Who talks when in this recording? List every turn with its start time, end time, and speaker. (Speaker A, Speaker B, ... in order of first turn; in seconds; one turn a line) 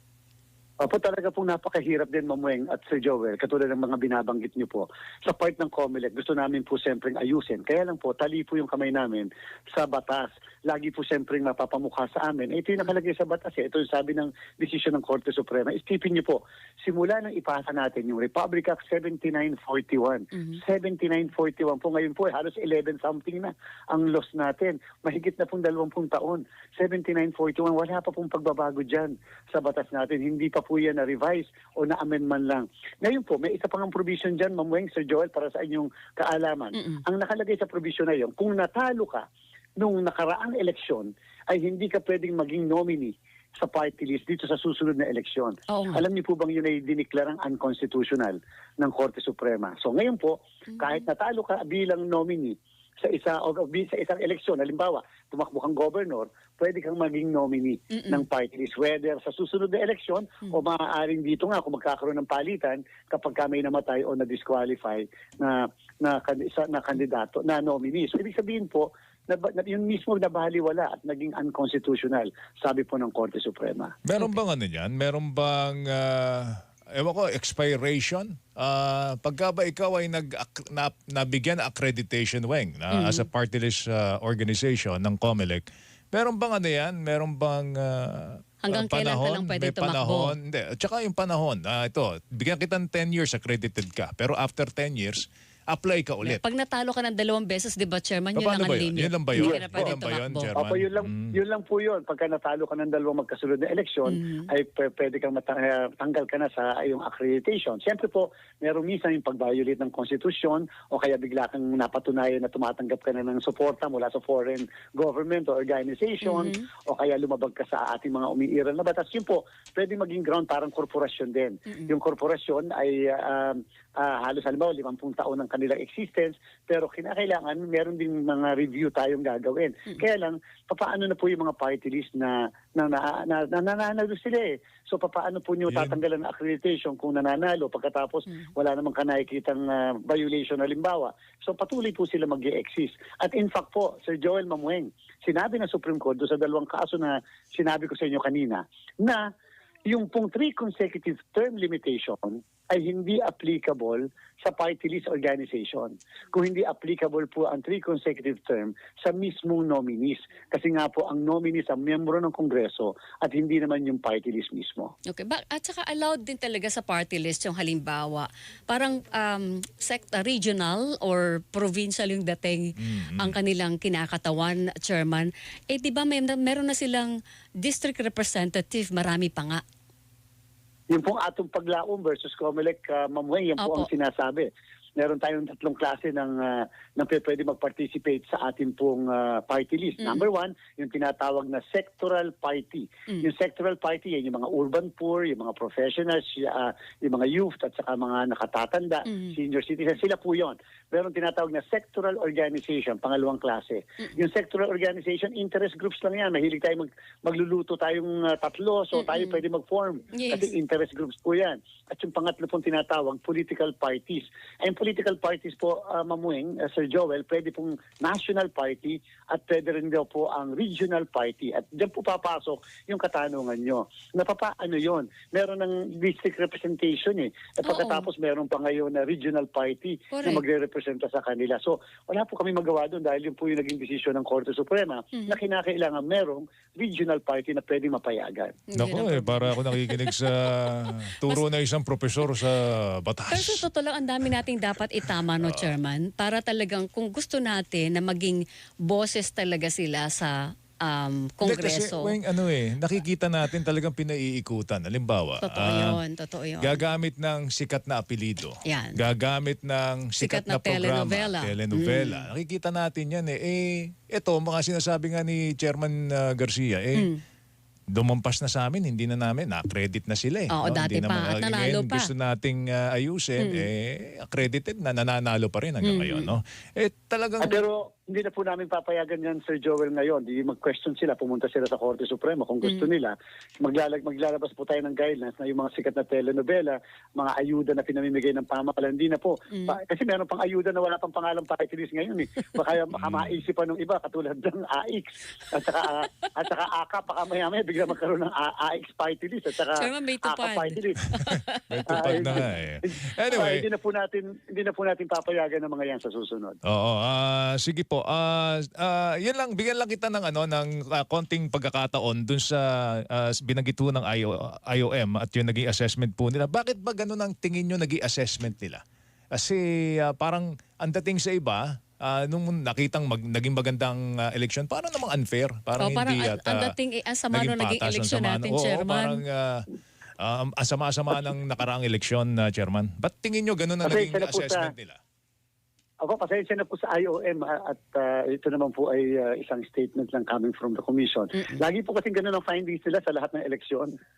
Speaker A: 0.8-39.2
Speaker B: 36.7-37.0
Speaker A: 39.8-73.9
Speaker B: 45.7-46.0
Speaker B: 50.7-51.0
Speaker B: 57.9-58.2
Speaker C: 74.0-96.4
Speaker B: 82.9-83.2
Speaker B: 88.6-90.3
Speaker B: 96.2-100.5
Speaker C: 98.3-101.3
Speaker A: 99.3-99.9
Speaker A: 100.5-149.2
Speaker B: 104.0-104.5
Speaker B: 116.2-116.6
Speaker C: 135.7-136.0
Speaker A: 149.9-164.9
Speaker B: 165.1-179.6
Speaker C: 172.8-173.4
Speaker A: 180.9-238.6
Speaker B: 183.6-183.9
Speaker B: 190.0-190.3
Speaker B: 199.1-199.3
Speaker B: 208.9-209.4
Speaker B: 210.1-210.5
Speaker B: 227.7-228.1
Speaker B: 230.1-230.4
Speaker B: 235.1-235.4
Speaker B: 238.7-241.4
Speaker C: 238.8-243.6
Speaker B: 243.3-252.2
Speaker C: 245.4-245.7
Speaker C: 251.4-256.0
Speaker B: 255.4-256.8
Speaker C: 256.6-267.1
Speaker B: 258.6-259.0
Speaker B: 260.1-262.3
Speaker C: 267.9-277.6
Speaker B: 270.5-272.1
Speaker B: 273.4-273.6
Speaker B: 275.8-276.3
Speaker A: 277.4-301.0
Speaker B: 282.6-282.9
Speaker B: 289.5-289.8
Speaker C: 292.9-293.4
Speaker B: 295.8-296.3
Speaker B: 299.7-302.5
Speaker C: 301.7-303.6
Speaker A: 301.9-306.6
Speaker C: 306.6-318.8
Speaker C: 319.3-326.7
Speaker B: 325.8-329.2
Speaker C: 327.3-329.6
Speaker C: 330.2-335.0
Speaker A: 333.8-334.7
Speaker A: 336.0-343.9